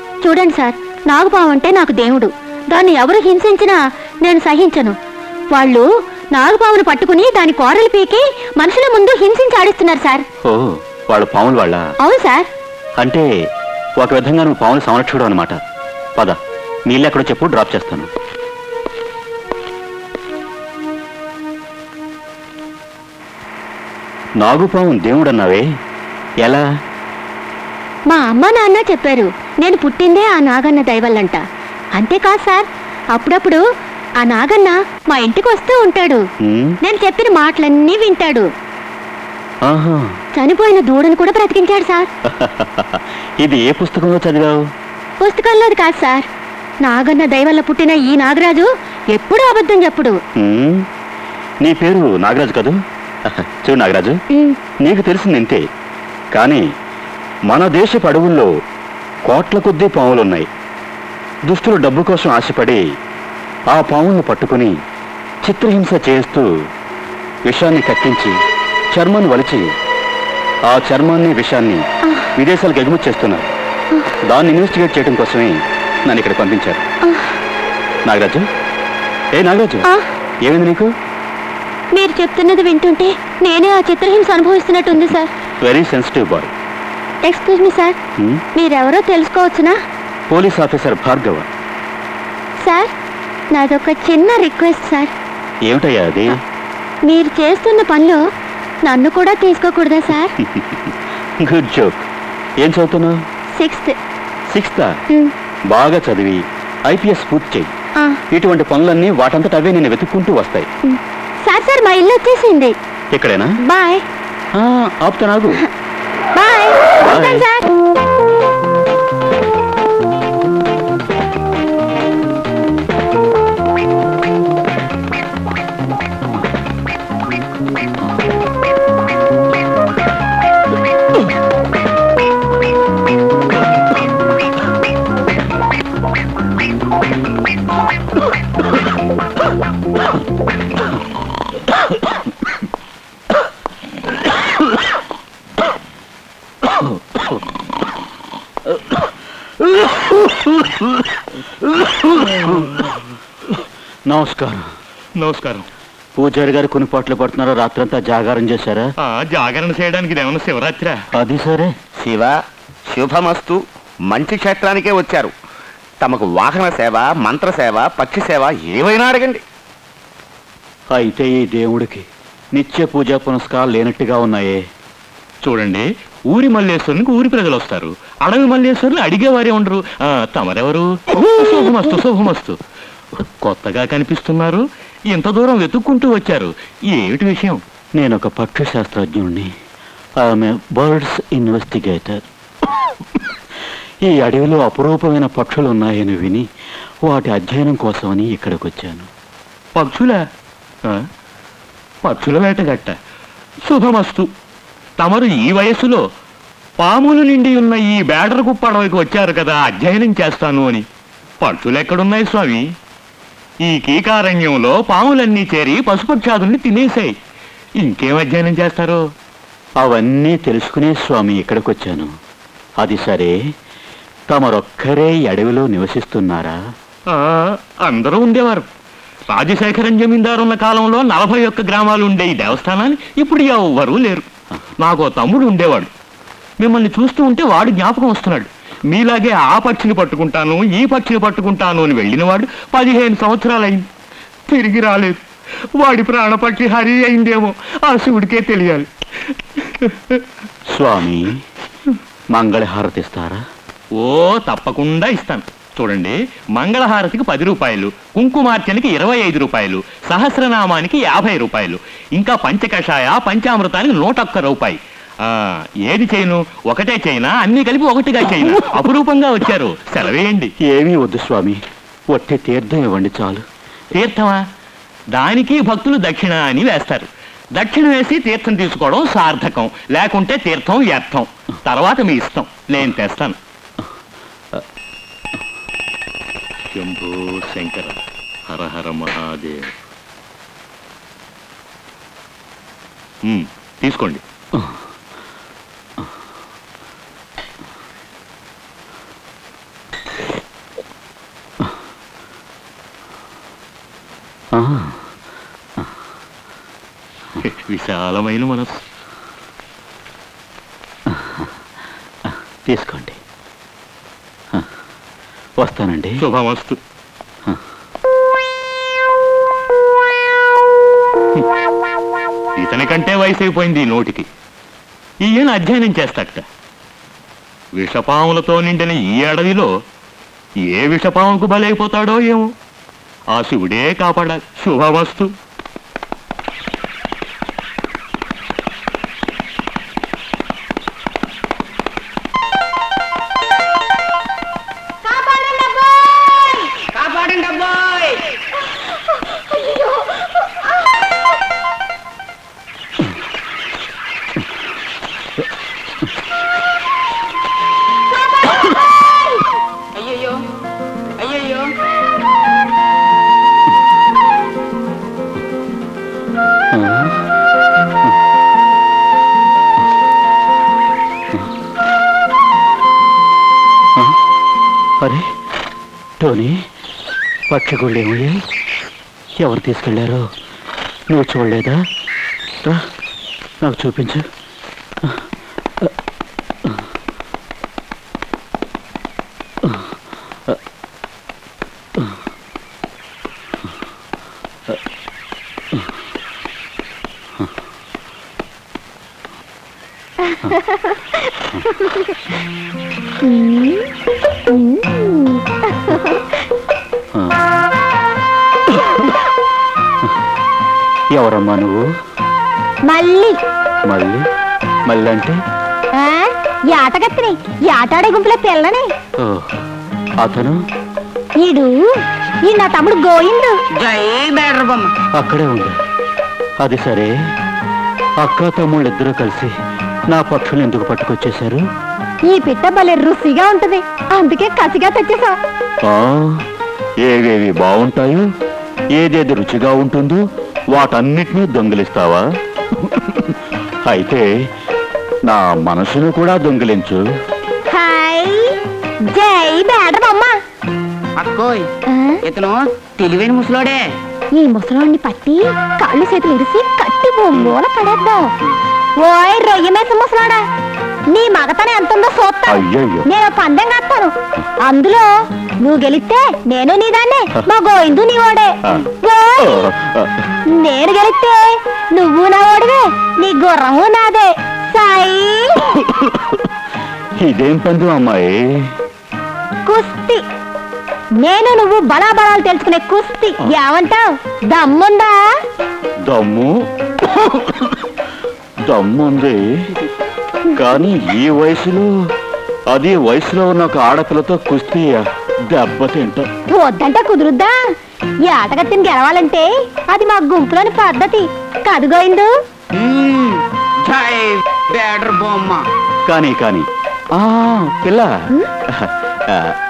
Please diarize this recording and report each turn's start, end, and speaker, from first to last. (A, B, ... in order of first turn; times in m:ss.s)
0:00.2-0:05.0 A
0:05.5-0:10.2 A
0:10.4-0:11.8 B
0:12.0-0:12.5 A
0:13.0-0:13.3 B
0:14.0-0:15.6 B
0:16.9-0:18.1 B
0:24.4-0:25.6 B
0:28.1-0:31.4 A
0:32.0-0:33.6 A
0:34.2-0:36.2 A
0:36.4-0:36.8 B
0:36.8-0:38.5 A
0:39.7-0:40.1 B
0:40.4-0:42.1 A
0:42.4-0:44.6 B
0:45.2-0:46.3 A
0:46.8-0:50.2 A
0:50.4-0:50.9 B
0:51.6-0:52.8 B
0:53.3-0:54.2 B
0:54.8-0:55.6 B
0:56.3-0:56.6 B
0:57.5-0:58.5 B
0:59.3-1:00.5 B
1:01.5-1:02.8 B
1:03.7-1:04.7 B
1:05.4-1:06.4 B
1:07.5-1:08.4 B
1:08.9-1:09.7 B
1:10.7-1:11.8 B
1:12.4-1:13.5 B
1:14.3-1:16.8 B
1:18.1-1:18.4 B
1:19.3-1:19.9 B
1:20.4-1:20.9 B
1:21.9-1:25.3 A
1:25.6-1:26.5 B
1:27.2-1:28.0 A
1:28.6-1:29.7 A
1:30.3-1:31.5 B
1:32.6-1:32.9 A
1:33.5-1:35.1 A
1:35.7-1:36.4 B
1:37.0-1:38.2 A
1:38.8-1:40.3 A
1:41.4-1:42.0 B
1:42.6-1:43.2 B
1:43.6-1:43.9 A
1:44.5-1:44.9 B
1:45.7-1:47.7 B
1:48.3-1:50.7 B
1:51.4-1:52.7 A
1:53.1-1:53.5 B
1:53.7-1:54.0 A
1:54.5-1:55.6 B
1:56.4-1:56.7 A
1:57.0-1:57.5 B
2:32.2-2:32.5 B
2:34.1-2:34.6 B
2:35.2-2:35.7 C
2:36.2-2:38.9 B
2:39.0-2:41.0 C
2:41.1-2:41.8 B
2:42.0-2:42.4 D
2:42.9-2:45.3 D
2:46.0-2:49.4 D
2:50.9-2:54.6 B
2:55.4-3:02.6 C
3:03.4-3:07.6 C
3:08.0-3:09.5 B
3:10.2-3:12.2 B
3:14.1-3:16.4 B
3:17.1-3:19.1 B
3:19.8-3:20.2 C
3:22.0-3:23.0 C
3:23.6-3:24.3 C
3:25.0-3:26.0 C
3:26.8-3:30.8 C
3:31.4-3:32.6 C
3:33.6-3:37.1 C
3:37.8-3:39.0 C
3:39.8-3:42.1 B
3:42.8-3:43.4 B
3:44.3-3:46.6 B
3:47.1-3:48.7 C
3:49.3-3:54.2 C
3:54.8-3:55.9 C
3:56.6-4:03.9 C
4:04.5-4:05.2 C
4:05.8-4:08.9 C
4:09.6-4:10.2 C
4:10.7-4:11.4 B
4:12.3-4:13.4 B
4:14.0-4:30.5 C
4:30.6-4:31.6 B
4:32.1-4:33.4 B
4:34.0-4:34.4 C
4:35.1-4:43.4 C
4:46.7-4:49.7 C
4:53.3-4:54.2 C
5:04.6-5:05.0 B
5:07.4-5:08.8 C
5:11.1-5:11.5 B
5:12.7-5:13.2 B
5:15.6-5:16.2 B
5:16.2-5:16.8 C
5:22.6-5:24.3 C
5:25.2-5:26.4 C
5:27.8-5:29.7 C
5:30.6-5:32.5 C
5:33.3-5:35.3 C
5:45.2-5:45.8 E
5:46.9-5:48.2 F
6:00.0-6:00.4 F
6:01.2-6:01.7 F
6:06.7-6:07.2 B
6:15.0-6:15.3 B
6:16.2-6:16.6 B
6:17.5-6:18.4 B
6:19.4-6:20.3 B
6:21.1-6:21.8 B
6:23.6-6:24.2 B
6:43.2-6:43.9 E
6:44.5-6:46.0 E
6:51.2-6:51.8 B
6:52.9-6:53.3 E
6:53.9-6:54.2 B
6:54.9-6:55.4 B
6:56.8-6:58.8 E
6:59.2-6:59.5 B
7:00.2-7:00.6 B
7:02.6-7:03.4 E
7:03.8-7:04.9 F
7:05.2-7:05.8 B
7:06.6-7:07.1 B
7:08.2-7:09.5 B
7:10.1-7:11.6 B
7:15.9-7:16.4 B
7:17.0-7:18.2 B
7:19.0-7:20.2 B
7:20.7-7:22.2 B
7:22.9-7:23.3 B
7:23.9-7:24.2 B
7:25.3-7:27.0 B
7:27.8-7:28.4 E
7:29.2-7:30.3 E
7:31.2-7:31.7 F
7:32.2-7:33.8 F
7:34.7-7:35.3 E
7:35.8-7:38.2 E
7:39.1-7:40.4 E
7:41.2-7:42.4 E
7:42.4-7:43.1 B
7:43.2-7:44.1 E
7:45.7-7:48.5 E
7:49.0-7:49.4 E
7:49.4-7:50.1 B
7:50.6-7:55.5 E
7:55.8-7:56.4 B
7:57.2-7:58.3 B
7:59.7-8:00.2 E
8:01.3-8:04.0 E
8:04.6-8:05.1 E
8:06.1-8:06.5 B
8:07.1-8:07.7 B
8:08.7-8:09.7 B
8:10.6-8:11.9 B
8:12.7-8:16.3 B
8:16.6-8:17.5 E
8:18.3-8:22.3 E
8:22.8-8:25.6 F
8:26.1-8:29.5 B